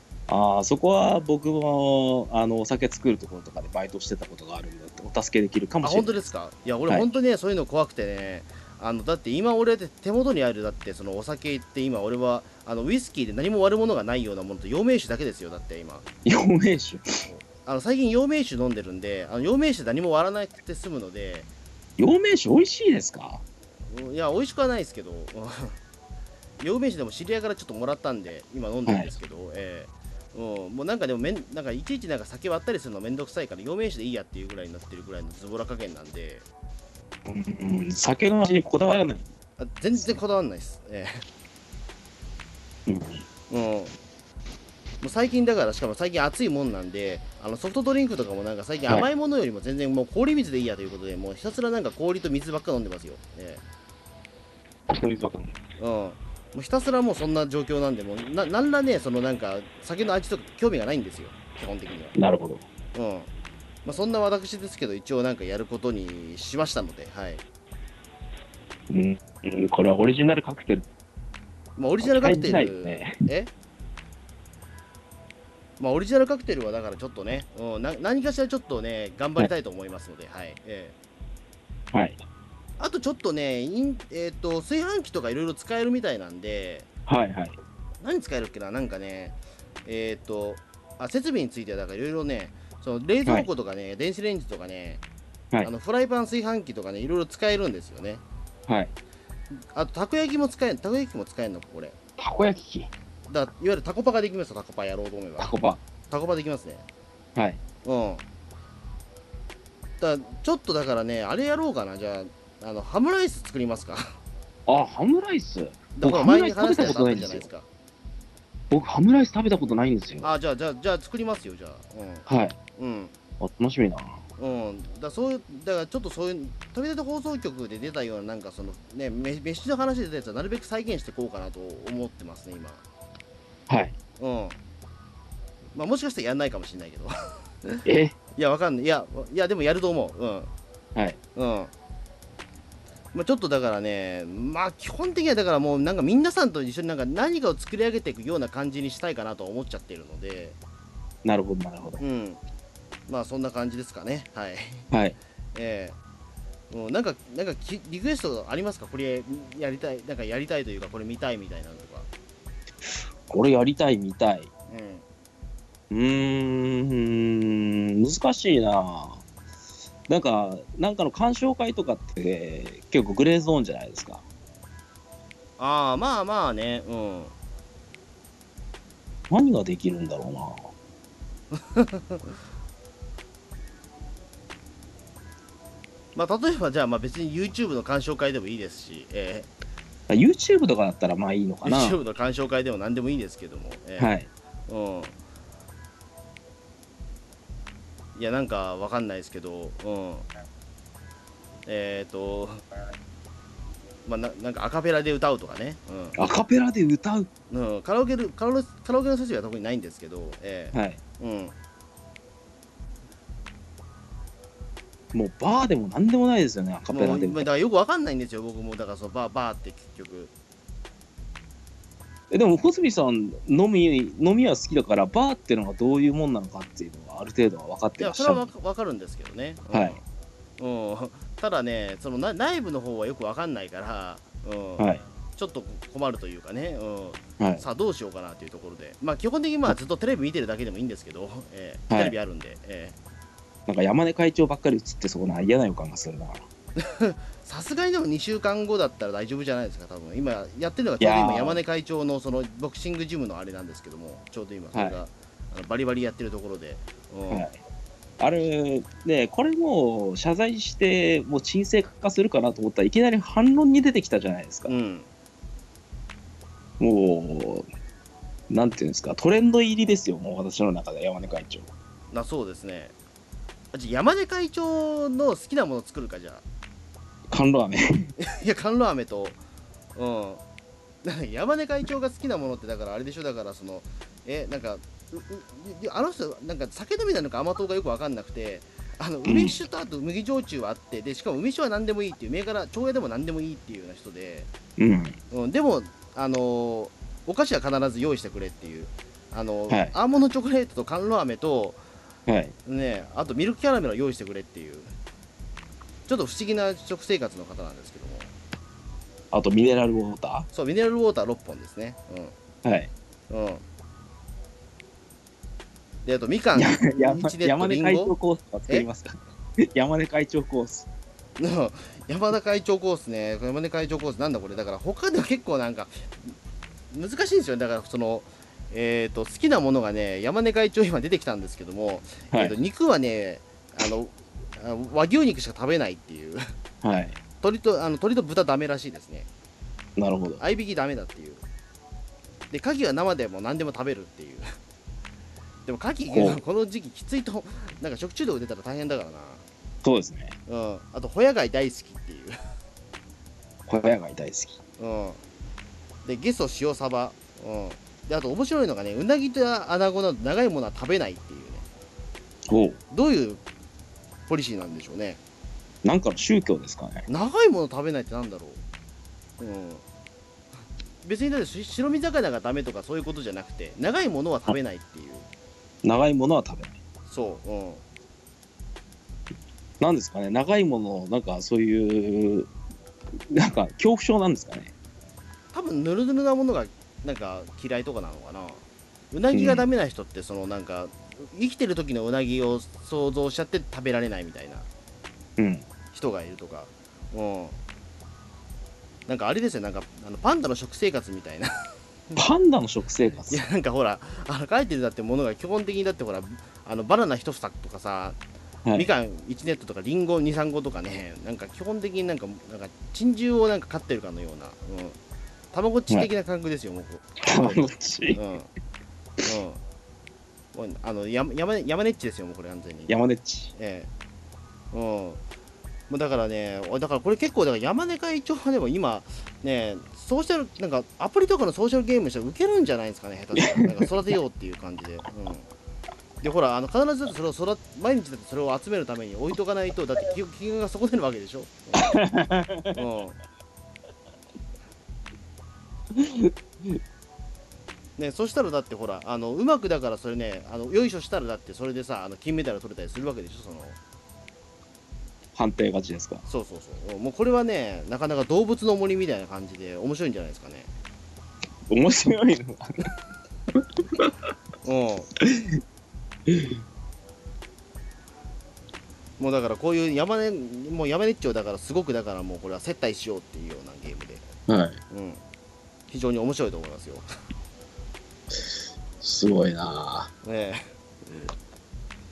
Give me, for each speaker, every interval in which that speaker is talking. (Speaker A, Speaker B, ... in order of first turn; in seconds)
Speaker A: 0.3-6.2, 16.2-17.1, 22.0-23.4, 28.9-29.1, 37.2-39.2, 42.9-43.2, 54.9-55.5, 62.1-62.6, 68.9-70.9, 72.0-73.2, 81.9-82.2, 87.1-87.6, 98.7-98.9, 102.2-102.9, 105.4-105.8, 107.3-107.6, 114.7-117.5, 118.7-120.3, 122.2-122.6, 123.4-124.2, 133.7-133.9, 137.8-138.1, 151.2-152.0, 154.9-155.2, 163.3-164.5, 165.9-169.2, 170.1-174.2, 179.3-180.7, 190.1-192.0, 194.0-194.3, 206.2-207.3, 210.7-211.0, 215.1-217.5, 222.3-228.5, 229.7-230.0, 234.8-235.0, 237.4-237.6, 241.9-242.2, 243.7-246.4, 251.0-251.6, 254.7-255.0, 257.3-257.6, 258.2-264.7, 266.8-267.7, 268.5-271.7, 277.3-278.1, 289.2-289.6, 294.8-295.2, 299.7-299.9, 302.3-302.5, 309.3-310.5, 312.6-312.9, 316.5-320.9, 332.3-332.6, 336.8-337.2, 340.0-340.4, 346.1-346.4, 349.8-350.4, 353.7-354.6, 362.5-362.8, 365.8-367.1, 375.8-376.7, 379.8-382.5, 383.3-384.7, 389.3-389.7, 395.4-395.6, 402.1-403.4, 408.6-408.9, 417.2-418.2, 422.9-423.5, 433.3-434.1, 441.7-442.8, 445.9-446.8, 455.3-456.2, 461.7-462.9, 465.2-465.5, 466.3-466.6, 474.5-474.8, 479.0-480.1
Speaker B: 5.8-16.1, 17.2-21.5, 23.9-25.8, 26.6-36.5, 39.6-41.2, 43.5-43.9, 45.0-53.6, 55.8-62.1, 62.9-63.3, 63.8-67.4, 71.8-73.5, 75.8-81.0, 82.8-86.9, 88.0-95.0, 95.6-98.2, 99.7-102.0, 103.3-105.6, 106.1-106.8, 107.8-108.2, 110.0-114.2, 115.9-117.7, 120.2-123.1, 124.4-132.8, 134.2-134.6, 135.7-137.1, 138.3-140.5, 141.3-141.7, 143.1-150.6, 152.0-152.4, 153.1-154.9, 155.5-156.0, 156.7-162.1, 164.7-165.0, 175.6-177.3, 181.5-182.3, 186.1-189.5, 191.6-194.1, 194.7-195.2, 198.1-200.2, 201.7-202.6, 204.0-206.2, 207.5-211.6, 216.9-220.3, 228.0-230.0, 230.6-242.9, 246.8-257.5, 264.6-265.1, 272.1-272.9, 273.7-276.4, 278.3-279.4, 279.9-280.4, 281.0-294.5, 295.3-301.8, 302.6-304.9, 306.1-308.3, 310.5-312.3, 313.3-313.6, 316.0-318.1, 321.4-326.3, 326.9-336.4, 337.4-339.3, 340.4-341.4, 342.5-344.5, 345.6-349.4, 350.5-352.4, 354.8-355.2, 356.0-361.6, 362.9-363.4, 364.3-365.2, 367.1-368.6, 369.4-369.8, 371.0-375.2, 377.1-377.8, 385.5-394.7, 395.9-397.6, 399.1-401.5, 403.3-408.2, 408.7-415.0, 415.5-418.5, 419.2-419.6, 420.5-422.9, 423.5-423.9, 424.7-425.2, 425.9-435.5, 436.2-441.9, 442.7-443.2, 448.0-453.8, 456.2-460.7, 464.6-465.1, 469.2-474.3, 474.9-475.2, 475.9-477.1, 480.2-481.3